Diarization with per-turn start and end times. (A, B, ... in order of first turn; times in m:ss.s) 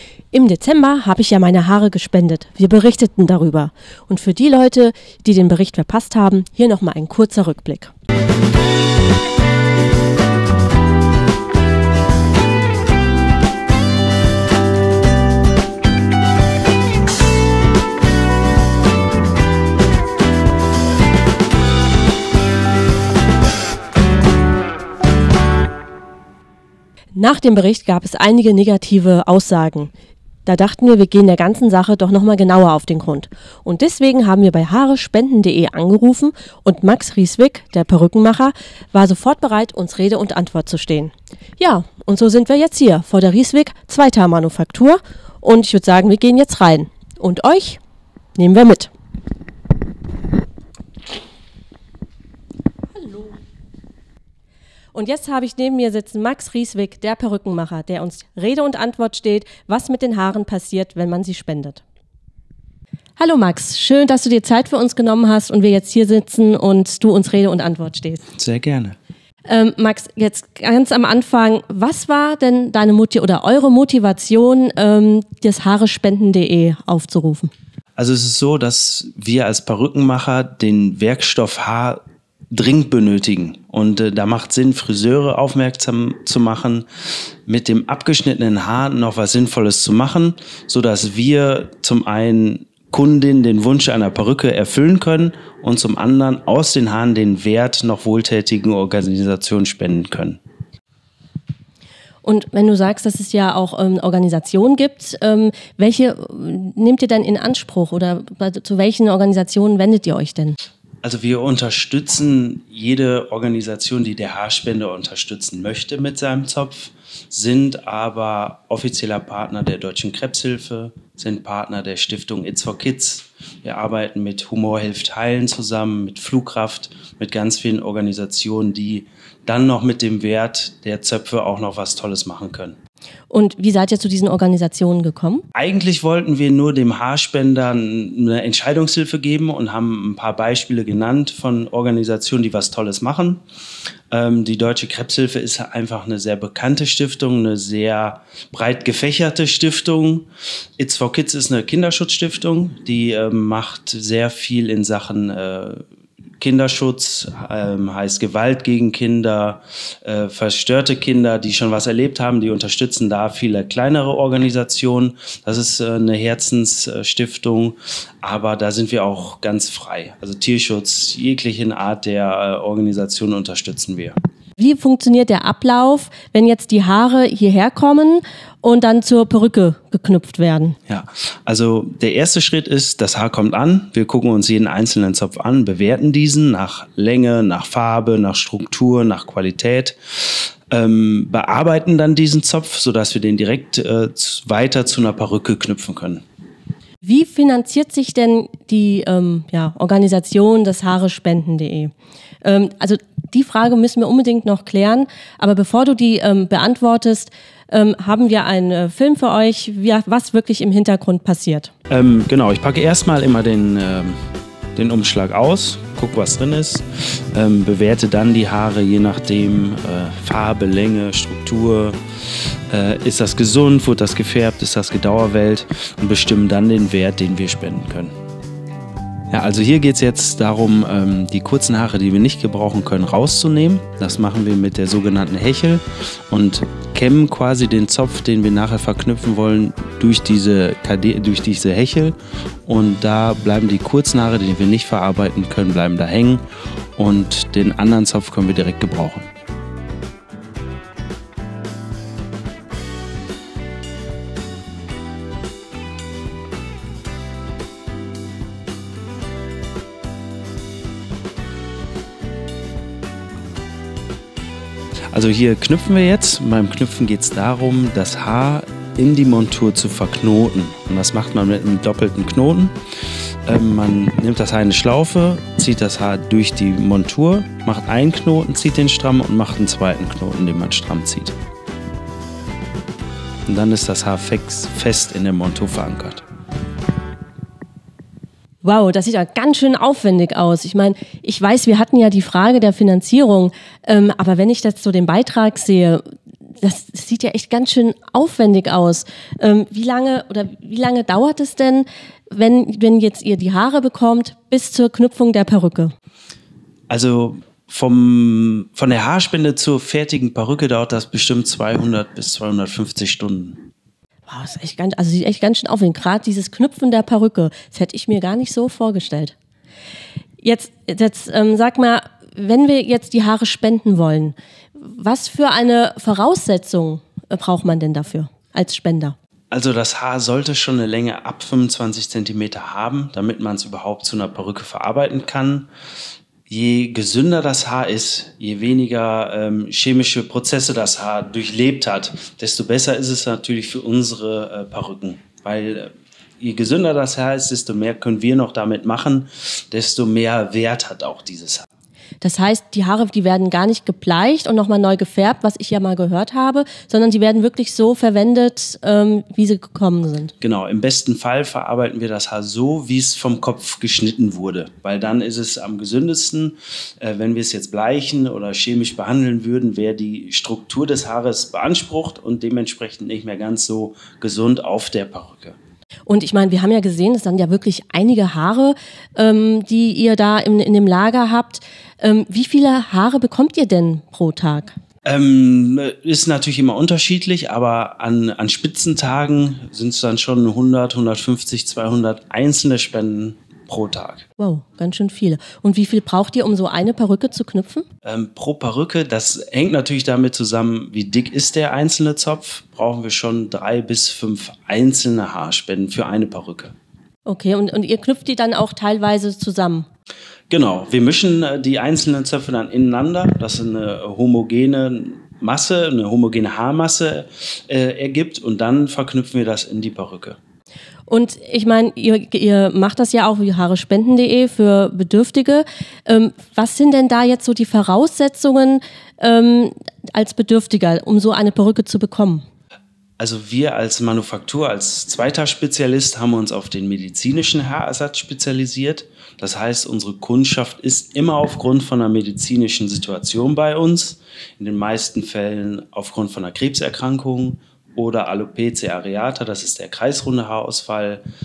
0:00.3-0:07.9 A
0:27.1-0:29.9 A
0:30.4-0:47.8 A
0:48.4-0:48.9 A
0:52.9-0:53.4 A
0:54.9-1:01.8 A
1:03.2-1:08.2 A
1:08.3-1:09.0 B
1:09.4-1:17.5 A
1:18.0-1:26.9 B
1:27.5-1:40.4 B
1:42.2-1:50.6 A
1:51.0-2:12.8 B
2:13.3-2:15.4 A
2:15.5-2:23.4 B
2:24.1-2:35.8 B
2:36.4-2:54.2 B
2:54.6-3:00.8 A
3:00.9-3:16.2 B
3:17.0-3:21.9 A
3:22.4-3:31.7 A
3:31.9-3:34.2 B
3:34.7-3:42.0 B
3:42.7-3:48.1 B
3:49.3-4:06.4 B
4:07.0-4:09.3 B
4:25.1-4:32.7 B
4:33.4-4:41.4 B
4:43.5-4:46.2 B
4:48.6-4:56.0 A
4:56.6-5:05.9 A
5:06.9-5:13.6 B
5:14.3-5:19.3 A
5:20.4-5:29.1 A
5:29.5-5:35.7 B
5:36.5-5:51.7 B
5:52.2-6:00.3 A
6:00.4-6:15.6 B
6:16.1-6:24.7 A
6:25.0-6:34.2 B
6:34.4-6:37.8 A
6:38.0-6:46.7 B
6:47.2-6:49.8 A
6:50.5-7:00.4 B
7:01.1-7:12.4 A
7:13.2-7:31.2 B